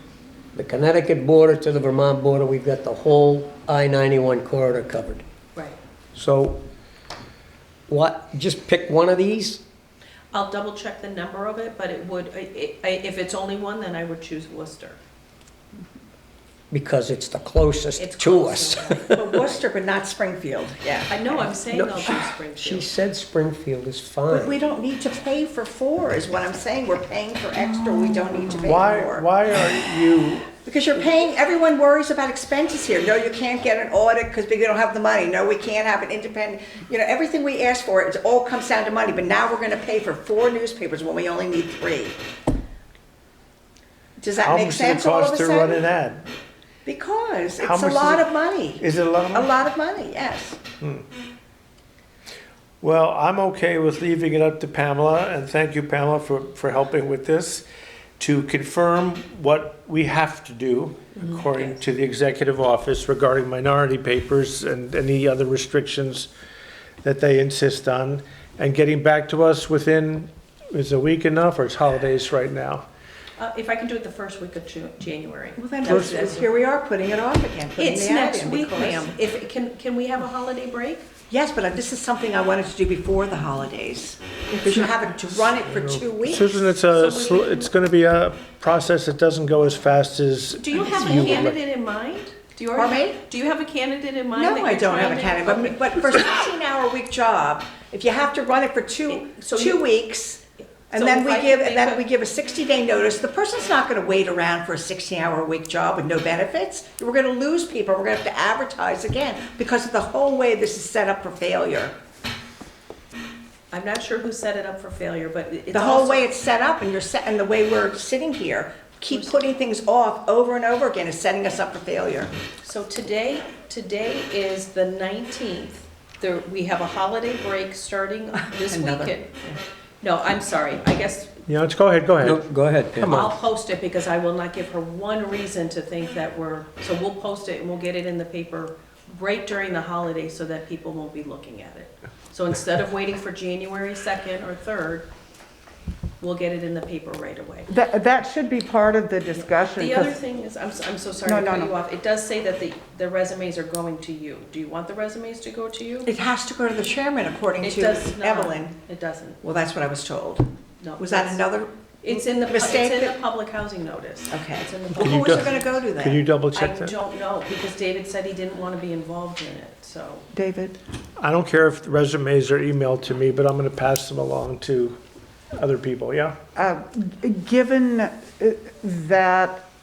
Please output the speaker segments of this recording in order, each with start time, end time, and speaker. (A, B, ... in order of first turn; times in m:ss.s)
0:00.5-0:05.2 A
0:06.1-0:06.6 A
0:07.9-0:09.6 A
0:10.3-0:15.0 B
0:16.7-0:19.5 A
0:18.0-0:19.1 B
0:19.1-0:21.4 C
0:21.1-0:22.9 B
0:21.6-0:24.5 A
0:24.3-0:29.9 C
0:28.1-0:28.5 D
0:28.6-0:30.5 E
0:30.5-0:42.2 C
0:44.2-0:45.8 C
0:44.4-0:46.2 E
0:46.8-0:48.8 C
0:47.6-0:48.2 E
0:48.8-0:49.5 E
0:49.3-0:50.6 C
0:52.8-0:57.6 E
0:58.2-1:06.3 E
1:01.1-1:01.8 B
1:07.0-1:12.8 E
1:13.4-1:16.5 B
1:15.6-1:19.1 C
1:15.9-1:16.2 E
1:17.8-1:21.0 B
1:21.3-1:26.5 C
1:25.7-1:31.5 E
1:26.8-1:27.7 B
1:30.6-1:35.8 B
1:30.8-1:31.6 A
1:32.8-1:33.2 C
1:34.3-1:51.9 C
1:39.1-1:39.8 B
1:40.9-1:42.0 B
1:53.7-1:56.3 B
1:55.7-2:02.3 C
1:59.1-1:59.4 B
2:02.6-2:09.3 B
2:08.7-2:09.6 C
2:10.0-2:11.3 B
2:11.5-2:12.4 E
2:12.2-2:13.4 A
2:13.0-2:13.2 E
2:13.1-2:25.1 B
2:26.2-2:27.7 B
2:27.7-2:30.2 D
2:29.3-2:36.1 B
2:31.2-2:31.7 D
2:36.0-2:38.7 C
2:37.6-2:39.4 B
2:39.4-2:43.2 C
2:40.8-2:41.4 B
2:42.0-2:45.8 B
2:44.3-2:46.2 C
2:45.0-2:47.0 E
2:46.5-2:50.3 B
2:50.3-2:50.8 D
2:51.2-2:55.0 E
2:55.6-2:56.3 E
2:56.6-2:59.6 D